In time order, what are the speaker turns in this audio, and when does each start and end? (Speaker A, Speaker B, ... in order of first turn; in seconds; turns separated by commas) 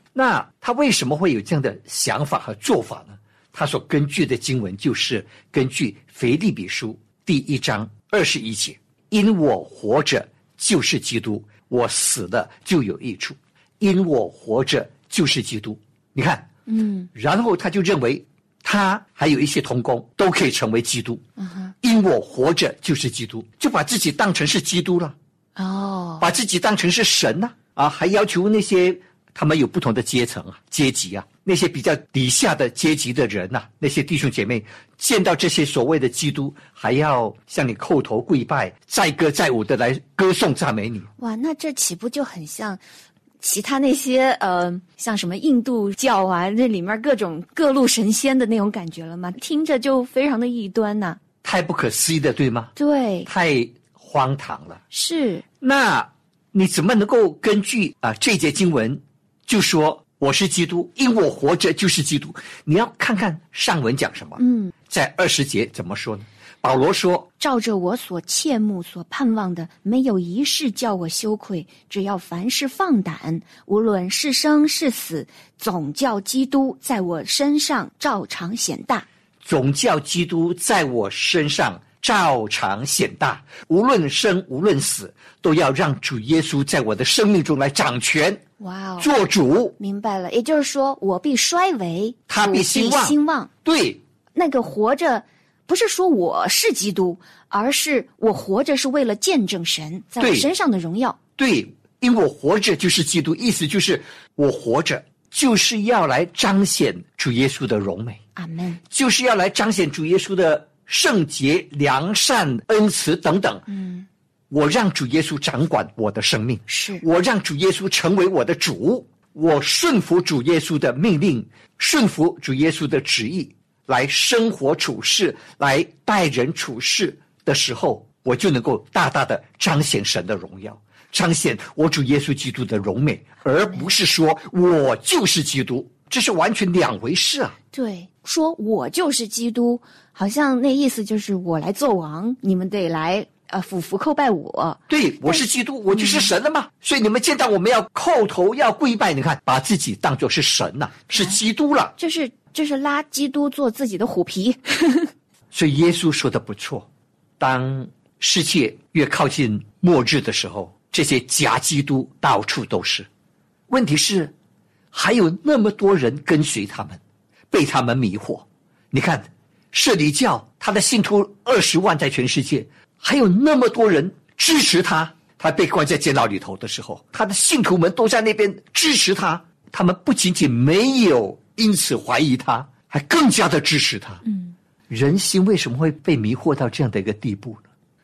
Speaker A: 0.1-16.5, Speaker B: 16.7-17.1, Speaker A: 17.1-21.2, Speaker B: 21.4-21.7, Speaker A: 21.8-25.1, Speaker B: 25.6-26.3, Speaker A: 26.2-41.1, Speaker B: 41.2-42.8, Speaker B: 43.4-51.2, Speaker A: 51.4-52.7, Speaker B: 52.8-53.3, Speaker A: 53.2-54.8, Speaker B: 54.9-55.4, Speaker A: 55.6-67.3, Speaker B: 64.4-64.7, Speaker B: 67.4-79.0, Speaker A: 79.4-88.4, Speaker B: 88.6-89.1, Speaker A: 89.0-89.8, Speaker B: 89.8-93.5, Speaker A: 92.3-94.0, Speaker B: 94.3-101.2, Speaker A: 100.2-100.5, Speaker A: 101.4-108.2, Speaker B: 108.3-108.8, Speaker A: 108.9-113.7, Speaker B: 113.7-114.0, Speaker A: 114.5-137.6, Speaker B: 116.7-117.0, Speaker B: 137.7-146.3, Speaker A: 144.9-151.9, Speaker B: 152.0-155.1, Speaker A: 155.5-156.9, Speaker A: 157.4-163.1, Speaker A: 163.7-164.3, Speaker A: 164.9-167.0, Speaker A: 167.5-184.2, Speaker B: 184.2-184.5, Speaker A: 184.9-187.6